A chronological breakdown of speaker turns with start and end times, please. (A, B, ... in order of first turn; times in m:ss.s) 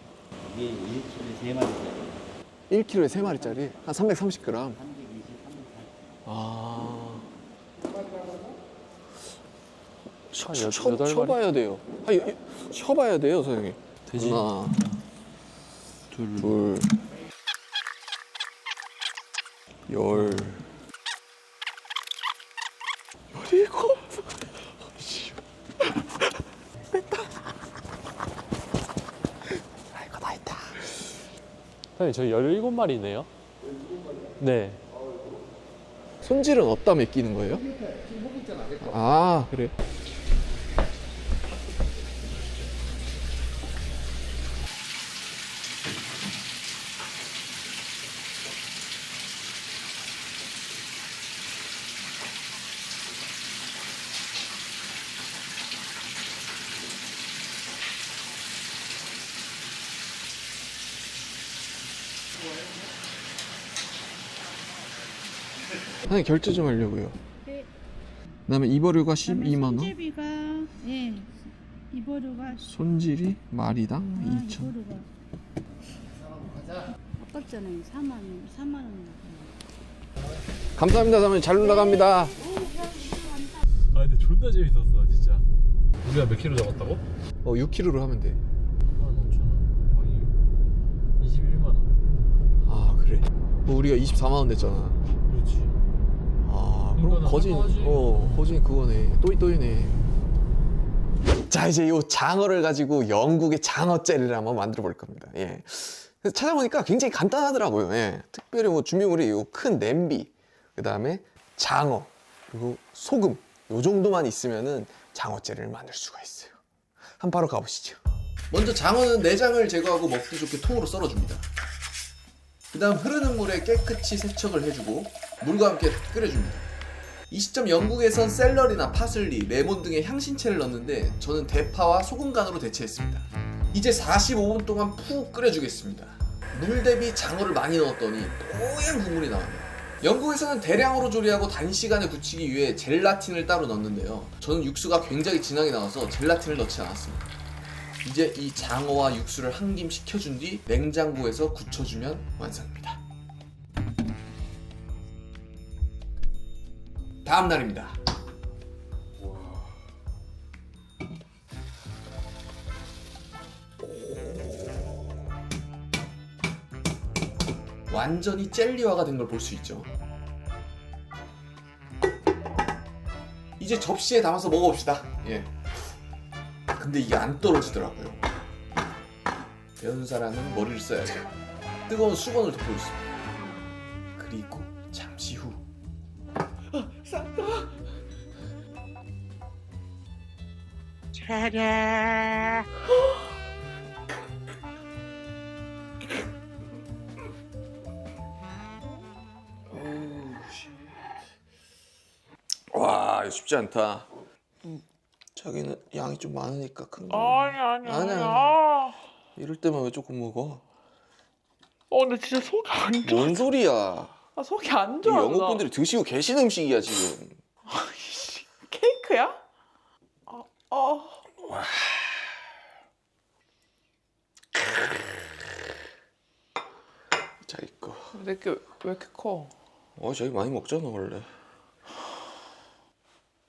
0:00.4-0:02.3 A
0:02.7-0:04.8 B
0:03.2-0:04.0 A
0:04.5-0:06.2 A
0:06.3-0:07.3 B
0:10.3-0:14.9 B
0:10.4-0:11.4 C
0:14.1-0:15.0 C
0:16.1-0:16.6 C
0:16.4-0:17.0 B
0:19.9-0:20.7 B
0:23.4-0:24.0 B
0:29.9-0:30.9 C
0:32.0-0:33.3 C
0:34.4-0:34.8 C
0:36.2-0:37.7 B
0:38.8-0:39.8 B
1:06.0-1:07.2 B
1:08.5-1:10.0 B
1:09.2-1:11.4 D
1:11.9-1:12.8 D
1:12.7-1:14.7 B
1:14.2-1:15.1 D
1:17.2-1:19.5 D
1:20.8-1:22.4 B
1:21.6-1:23.7 D
1:23.9-1:25.5 C
1:26.0-1:27.0 C
1:27.4-1:28.4 B
1:29.0-1:30.4 C
1:31.2-1:32.0 C
1:32.6-1:35.0 B
1:35.3-1:35.8 C
1:36.4-1:40.0 B
1:37.0-1:38.4 C
1:41.5-1:56.6 B
1:57.2-1:58.0 B
1:58.5-2:01.5 B
2:02.7-2:06.7 B
2:07.3-2:27.3 B
2:28.0-2:33.0 B
2:37.2-2:38.0 B
2:43.9-2:44.4 B
2:47.9-2:49.9 B
2:53.6-2:55.5 B
2:56.7-2:58.2 B
2:59.8-3:01.3 B
3:01.9-3:03.0 B
3:04.2-3:05.6 B
3:07.1-3:07.5 E
3:11.3-3:12.6 B
3:19.7-3:20.7 B
3:22.7-3:24.1 B
3:25.4-3:28.6 B
3:27.1-3:29.0 E
3:29.4-3:30.6 B
3:31.9-3:33.5 E
3:33.0-3:34.2 B
3:34.4-3:35.7 E
3:35.0-3:37.4 B
3:37.7-3:39.4 E
3:40.3-3:41.2 E
3:41.4-3:42.0 B
3:47.5-3:48.2 B
3:48.1-3:49.5 E
3:50.0-3:51.3 B